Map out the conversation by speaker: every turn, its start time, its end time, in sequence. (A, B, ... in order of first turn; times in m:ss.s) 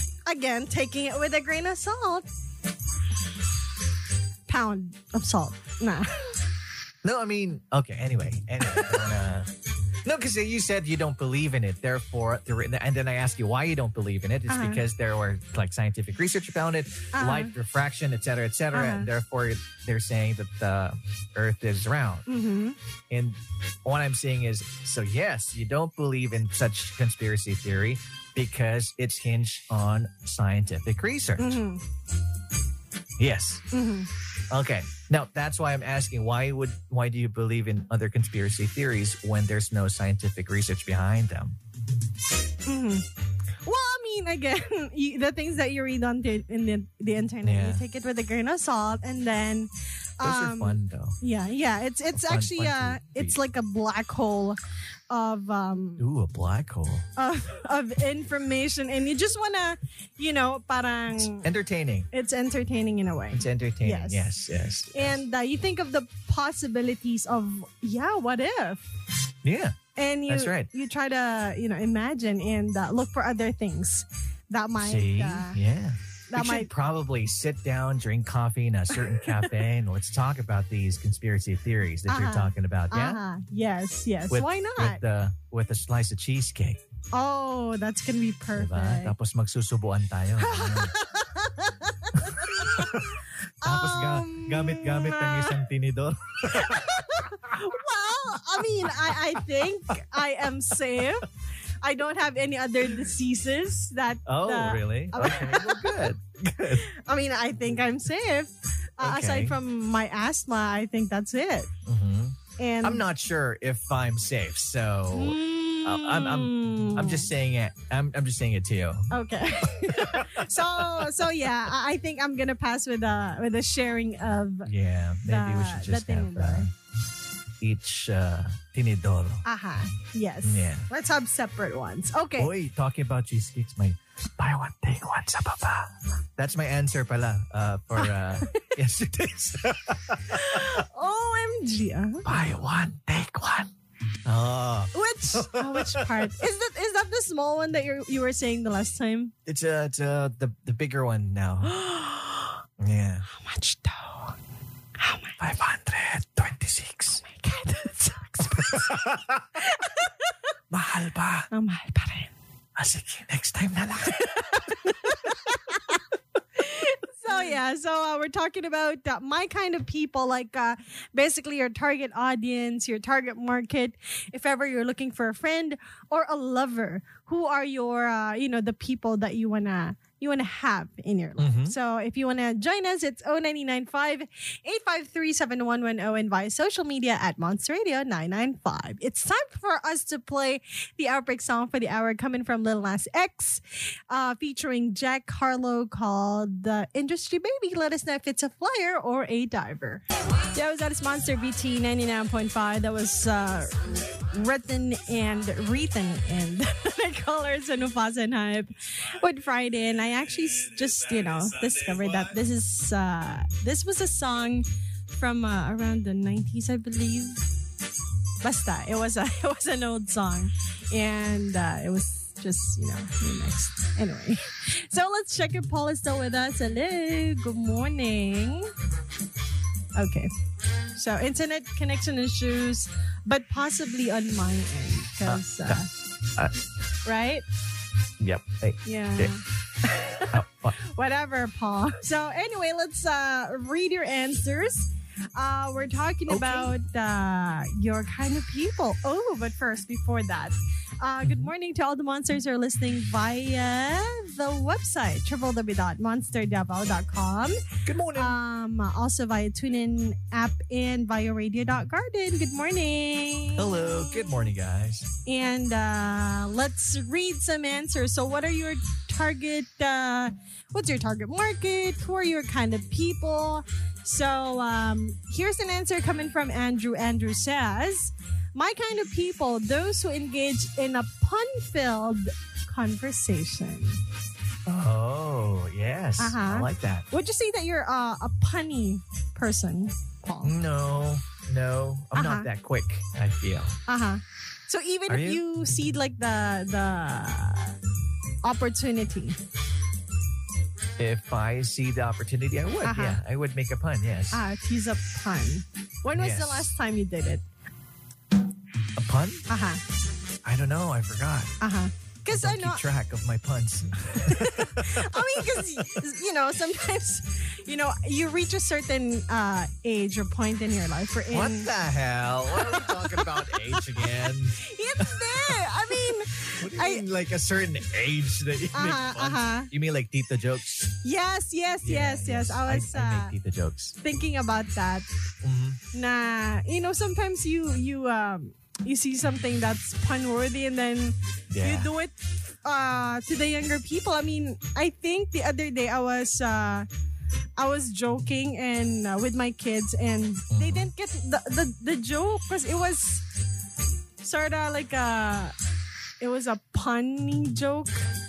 0:00.3-0:02.3 A
0:04.5-0:06.4 A
0:07.0-0:09.5 B
0:08.6-0:09.1 A
0:10.0-0:22.3 B
0:14.5-0:14.8 A
0:17.1-0:17.5 A
0:18.7-0:19.1 A
0:22.3-0:22.8 A
0:23.1-0:31.6 B
0:31.4-0:31.8 A
0:33.2-0:33.6 B
0:33.7-0:34.1 A
0:34.5-0:41.6 B
0:42.7-0:43.1 A
0:43.6-0:54.6 A
0:47.4-0:47.8 B
0:50.2-0:51.2 B
0:52.1-0:53.4 B
0:55.1-0:56.0 A
0:56.0-0:57.1 B
0:57.2-1:01.5 A
1:01.3-1:02.1 B
1:02.1-1:04.3 A
1:03.3-1:05.2 B
1:04.9-1:08.8 A
1:09.4-1:10.7 B
1:10.0-1:15.6 A
1:14.8-1:23.2 B
1:16.3-1:16.7 A
1:19.1-1:19.5 A
1:22.1-1:25.0 A
1:24.3-1:26.8 B
1:27.1-1:29.1 A
1:28.6-1:31.0 B
1:30.4-1:35.6 A
1:32.2-1:37.6 B
1:36.5-1:41.3 A
1:38.9-1:39.2 B
1:41.8-1:46.1 A
1:44.3-1:46.9 B
1:46.7-1:51.7 A
1:49.0-1:49.6 B
1:51.9-1:59.1 B
1:52.6-1:53.0 A
1:55.1-1:57.3 A
1:59.1-2:04.7 A
1:59.7-2:01.3 B
2:04.6-2:06.7 B
2:05.3-2:06.7 A
2:07.6-2:09.4 B
2:09.4-2:12.5 A
2:10.4-2:10.9 B
2:12.4-2:20.8 B
2:18.0-2:18.8 A
2:20.3-2:22.3 A
2:22.2-2:23.7 B
2:24.2-2:26.3 B
2:24.9-2:29.3 A
2:29.5-2:31.8 B
2:31.7-2:32.5 A
2:32.8-2:33.3 B
2:33.3-2:34.4 A
2:35.0-2:35.4 A
2:35.4-2:37.2 B
2:37.2-2:40.3 A
2:38.6-2:39.6 B
2:40.7-2:41.5 B
2:41.5-2:42.3 A
2:42.8-2:44.9 B
2:44.2-2:46.0 A
2:46.6-3:37.4 A
3:01.4-3:01.8 B
3:38.4-3:48.7 A
3:50.0-3:50.3 A
3:51.0-3:55.9 A
3:55.3-3:55.8 B
3:57.0-3:57.4 A
3:58.2-3:59.3 B
3:58.8-4:17.6 A
4:00.3-4:00.8 B
4:06.3-4:06.7 B
4:11.2-4:11.5 B
4:17.8-4:18.4 B
4:18.1-4:24.5 A
4:23.6-4:25.1 B
4:25.2-4:44.0 A
4:44.7-4:47.1 B
4:46.2-4:50.6 A
4:50.4-4:53.8 B
4:52.1-4:52.5 A
4:53.9-4:57.8 A
4:55.1-4:55.4 B
4:58.4-4:59.4 A
5:01.0-5:04.4 B
5:02.8-5:03.2 A
5:04.3-5:07.4 A
5:06.1-5:06.7 B
5:09.0-5:09.5 B
5:09.5-5:09.8 A
5:10.4-5:11.6 B
5:11.6-5:12.8 A
5:12.3-5:16.0 B
5:14.2-5:21.7 A
5:21.3-5:31.0 B
5:22.5-5:27.0 A
5:28.7-5:29.7 A
5:31.0-5:33.3 A
5:31.8-5:34.0 B
5:34.0-5:35.1 A
5:35.4-5:35.8 B
5:35.9-5:46.9 A
5:41.5-5:41.9 B
5:47.6-5:53.2 A
5:50.5-5:50.9 B
5:54.2-5:55.5 A
5:56.2-5:58.1 A